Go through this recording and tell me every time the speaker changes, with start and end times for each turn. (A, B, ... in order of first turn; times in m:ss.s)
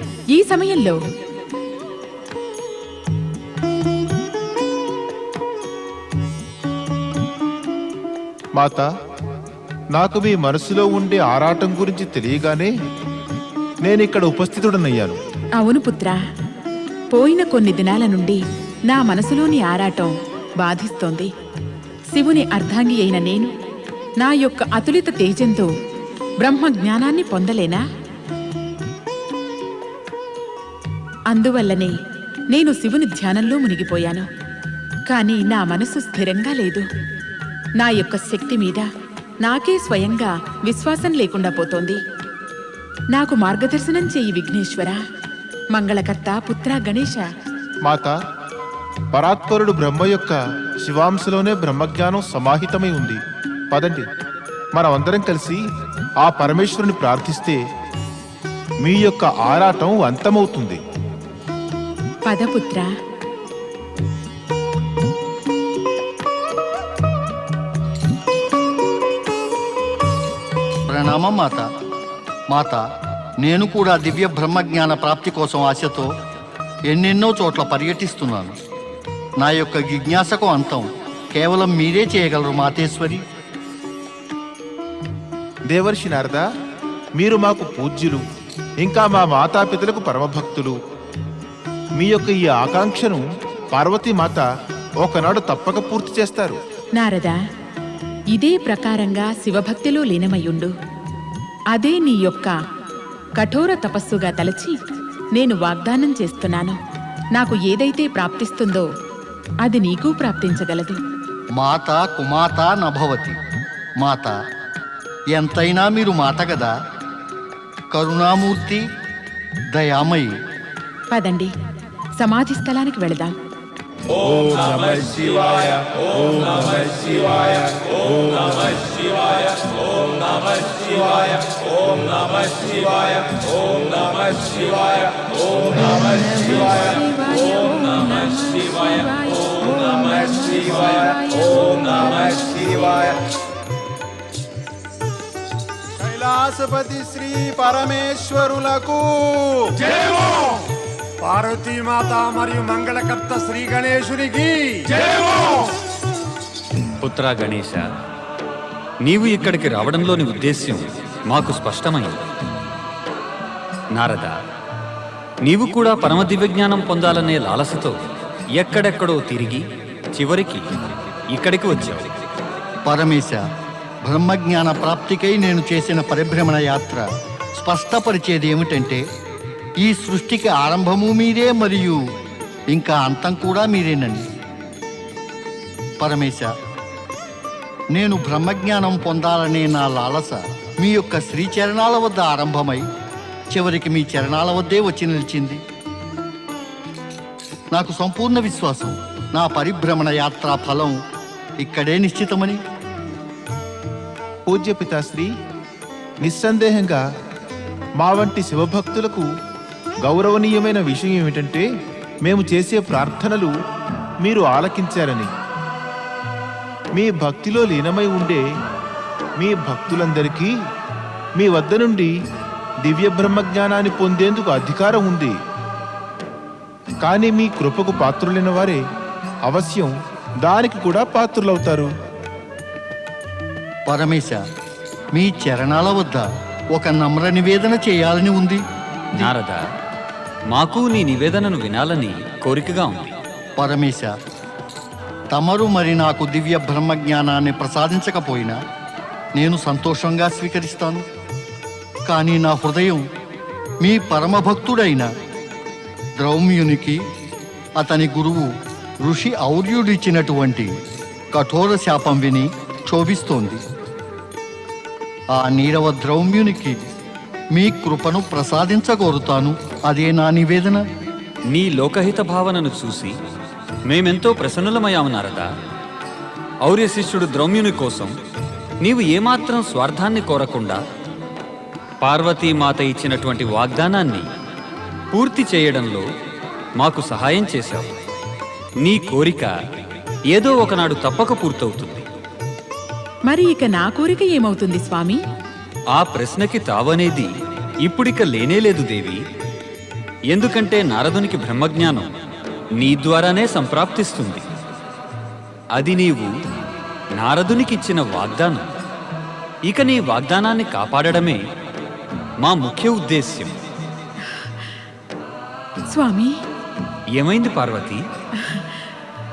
0:00.3-0:01.0 A
0:08.6-0:08.9 B
0:10.0-0:12.7 B
0:13.8-0:15.2 B
0:15.6-0:16.2 A
0:17.1-0:21.3 A
0:22.1-0:23.5 A
0:24.2-0:25.7 A
0:26.4-0:27.8 A
0:31.3-0:32.0 A
0:32.5-0:34.3 A
0:35.1-0:36.8 A
0:37.8-0:38.9 A
0:39.4-0:42.0 A
0:43.1-0:45.0 A
0:45.7-0:47.2 A
0:47.9-0:48.2 B
0:49.1-0:54.1 B
0:54.8-0:55.6 B
0:56.2-0:57.6 B
0:58.8-1:00.8 B
1:02.2-1:02.9 A
1:10.9-1:11.7 C
1:12.5-1:12.9 C
1:13.4-1:16.1 C
1:16.8-1:18.5 C
1:19.4-1:23.2 C
1:25.7-1:26.4 B
1:27.2-1:28.2 B
1:28.8-1:30.8 B
1:32.0-1:34.4 B
1:35.0-1:36.6 B
1:37.0-1:37.4 A
1:38.3-1:40.7 A
1:41.7-1:42.5 A
1:43.4-1:44.8 A
1:45.4-1:46.8 A
1:47.4-1:48.9 A
1:49.6-1:51.0 A
1:51.6-1:53.4 C
1:54.0-1:54.4 C
1:55.4-1:56.7 C
1:57.9-1:58.8 C
1:59.7-2:00.3 C
2:01.1-2:01.5 A
2:02.2-2:03.4 A
2:15.6-2:23.0 D
2:26.1-2:29.7 E
2:31.2-2:34.9 F
2:37.0-2:37.8 G
2:39.0-2:42.2 G
2:44.0-2:44.4 G
2:45.5-2:48.0 G
2:48.6-2:49.6 G
2:50.2-2:50.7 G
2:51.3-2:52.1 G
2:52.8-2:53.4 C
2:54.0-2:57.0 C
2:57.6-2:59.0 C
2:59.8-3:02.0 C
3:02.7-3:04.2 C
3:06.0-3:06.5 C
3:07.9-3:12.8 C
3:13.5-3:15.6 C
3:17.7-3:21.0 C
3:21.6-3:22.6 C
3:24.5-3:25.3 B
3:26.2-3:27.0 B
3:28.0-3:29.3 B
3:30.0-3:31.7 B
3:32.2-3:33.5 B
3:34.2-3:35.3 B
3:36.9-3:38.4 B
3:39.4-3:40.5 B
3:41.4-3:42.1 B
3:42.8-3:45.4 B
3:47.0-3:48.8 B
3:49.5-3:49.9 B
3:50.4-3:51.9 B
3:53.9-3:54.4 C
3:55.1-3:58.6 C
3:59.2-3:59.6 G
4:00.5-4:03.1 G
4:03.6-4:04.1 C
4:05.3-4:08.6 C
4:09.4-4:11.0 C
4:12.1-4:13.0 C
4:13.8-4:15.1 C
4:16.2-4:17.0 C
4:17.8-4:18.5 C
4:19.0-4:20.8 C
4:21.3-4:23.6 C
4:25.3-4:26.8 C
4:27.5-4:30.8 C
4:31.5-4:33.2 G
4:33.9-4:35.5 G
4:36.7-4:38.1 G
4:38.8-4:40.8 G
4:42.0-4:44.3 G
4:45.1-4:46.0 G
4:46.8-4:47.9 G
4:48.8-4:49.6 G
4:50.3-4:52.0 G
4:53.3-4:55.2 A
4:56.0-4:57.3 G
4:57.9-4:59.2 G
5:00.3-5:02.1 G
5:02.8-5:04.5 G
5:05.8-5:06.3 G
5:07.2-5:08.7 G
5:09.7-5:11.4 G
5:12.4-5:13.6 G
5:15.9-5:16.3 A
5:17.2-5:18.0 G
5:18.5-5:18.8 A